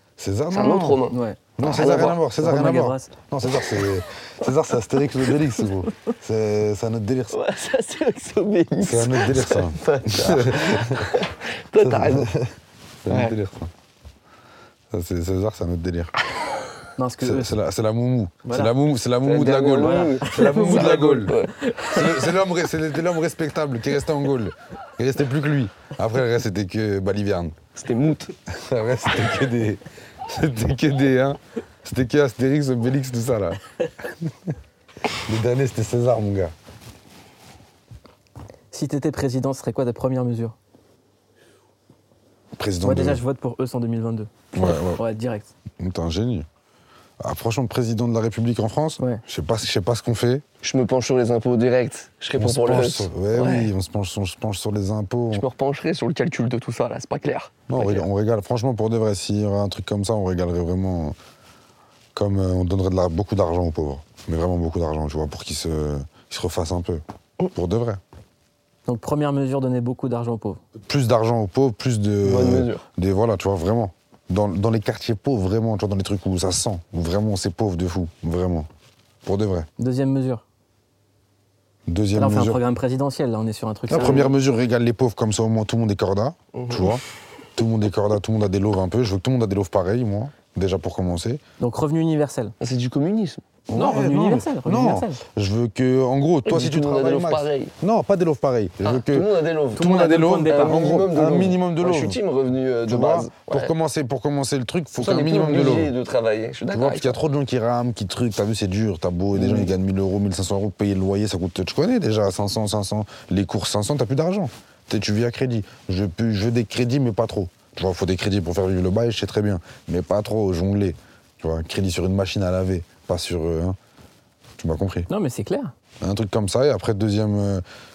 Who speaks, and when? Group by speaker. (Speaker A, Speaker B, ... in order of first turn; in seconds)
Speaker A: 0.2-1.0, 1.6-7.3, 8.8-11.1, 11.8-12.5, 13.0-13.7, 14.9-16.1, 17.2-21.4, 21.9-27.6, 28.5-34.5, 35.2-36.5, 42.5-43.2, 44.5-45.0, 45.8-46.5, 47.2-50.4, 52.4-55.4, 57.7-61.1, 62.1-68.0, 70.8-78.7, 79.2-79.7, 81.9-82.6, 83.9-87.0, 87.6-91.4, 93.7-102.2, 102.9-105.9, 106.7-123.8, 124.6-125.1, 126.0-127.6
Speaker B: 0.5-2.2, 7.3-12.3, 13.1-13.3, 19.2-22.1, 27.8-28.3, 50.6-53.7, 55.3-58.1, 72.2-72.8, 86.5-87.0, 92.6-93.4, 96.5-97.7, 98.8-103.7, 105.0-107.2, 109.3-109.7
Speaker C: 1.1-1.4, 2.4-3.1, 17.0-17.6, 18.4-18.7, 19.8-20.7, 21.6-21.9, 38.7-40.5, 42.8-45.5, 68.9-70.6, 79.8-80.4, 82.1-84.3, 91.6-92.5, 93.7-95.2, 99.8-100.9, 125.1-125.7